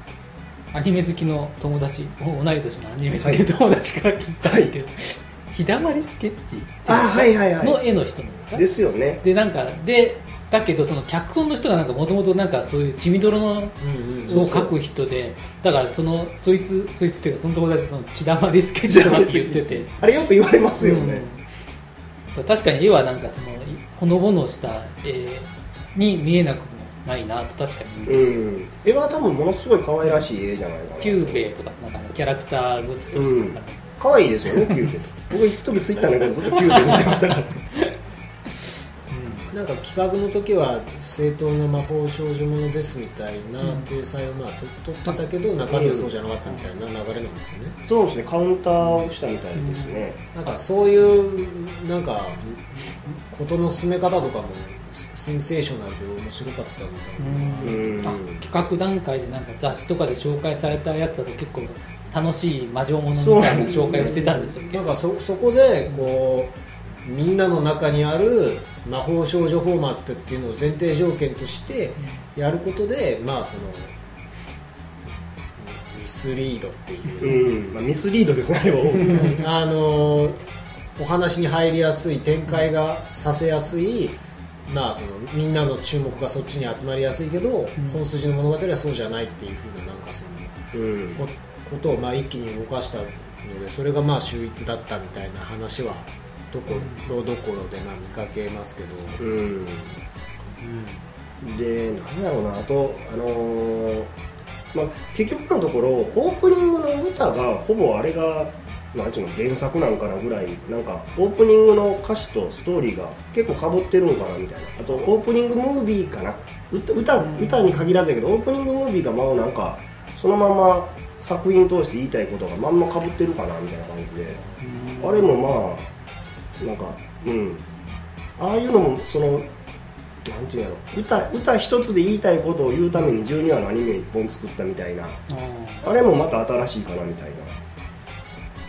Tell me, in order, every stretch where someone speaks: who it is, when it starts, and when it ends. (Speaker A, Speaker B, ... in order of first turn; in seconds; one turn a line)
Speaker A: 0.7-8.7
Speaker B: 3.2-3.4
Speaker B: 4.4-4.7
Speaker B: 6.9-7.8
Speaker B: 8.5-9.2
Speaker A: 9.2-20.0
Speaker C: 13.8-14.4
Speaker B: 14.3-14.7
Speaker B: 18.9-21.2
Speaker A: 20.8-21.4
Speaker A: 22.3-28.6
Speaker B: 28.1-31.4
Speaker A: 31.0-33.8
Speaker B: 33.1-37.6
Speaker A: 36.6-37.2
Speaker A: 39.1-39.5
Speaker C: 39.5-47.8
Speaker A: 43.6-43.9
Speaker B: 45.7-46.1
Speaker B: 47.8-50.2
Speaker A: 49.5-50.5
Speaker C: 50.3-58.0
Speaker A: 57.2-64.8
Speaker B: 57.6-58.4
Speaker B: 63.1-64.4
Speaker C: 64.0-73.9
Speaker C: 75.6-77.7
Speaker B: 77.2-79.4
Speaker C: 79.1-80.4
Speaker C: 81.0-90.6
Speaker B: 90.7-91.2
Speaker C: 91.1-99.2
Speaker A: 96.7-97.1
Speaker B: 99.2-100.0
Speaker C: 100.6-101.0
Speaker B: 101.4-104.1
Speaker B: 104.7-124.4
Speaker A: 117.3-117.7
Speaker A: 124.6-125.3
Speaker B: 125.0-125.9
Speaker B: 126.6-127.6
Speaker B: 128.4-129.5
Speaker B: 130.2-135.2
Speaker A: 135.3-135.8
Speaker B: 135.8-137.6